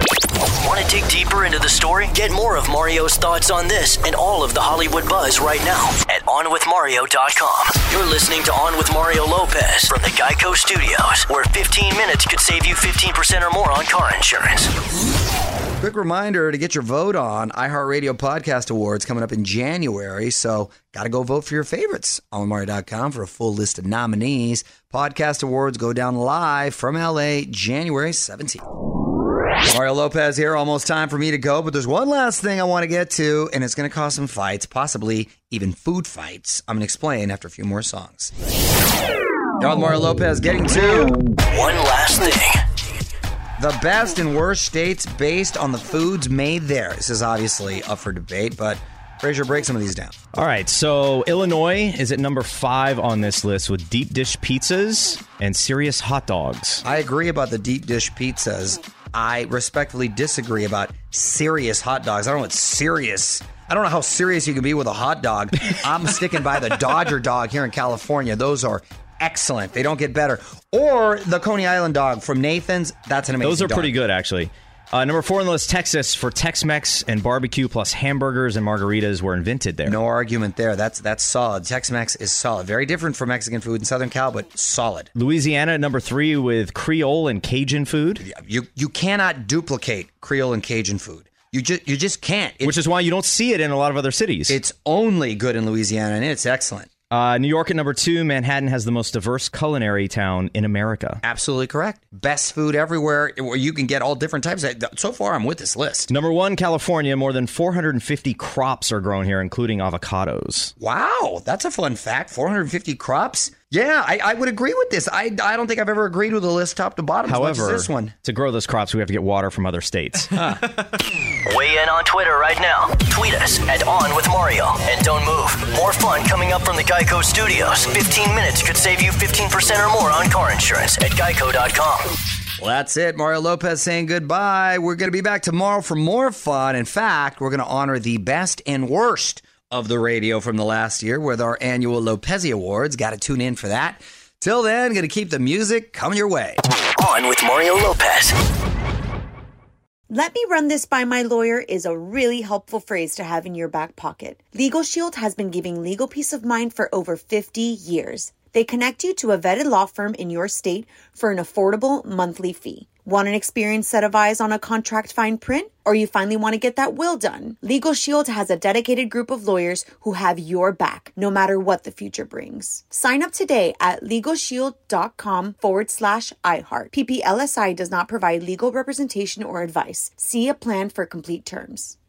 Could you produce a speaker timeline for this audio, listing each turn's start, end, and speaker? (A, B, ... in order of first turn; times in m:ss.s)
0:00.6-0:14.7 A
0:15.8-0:28.6 B
0:29.7-0:38.3 B
0:39.6-0:41.2 B
0:41.5-0:42.6 A
0:43.6-0:50.1 B
0:50.3-0:56.8 C
0:56.8-1:13.9 B
1:13.4-1:20.0 C
1:19.8-1:25.1 B
1:25.1-1:28.2 C
1:28.2-1:32.8 B
1:32.6-1:34.6 C
1:34.5-1:36.9 B
1:37.1-1:41.2 C
1:41.2-1:46.1 B
1:46.1-1:50.7 C
1:50.8-1:58.2 B
1:57.2-2:00.6 C
2:01.4-2:12.0 A
2:12.6-2:26.6 B
2:27.0-2:28.3 A
2:30.1-3:02.0 D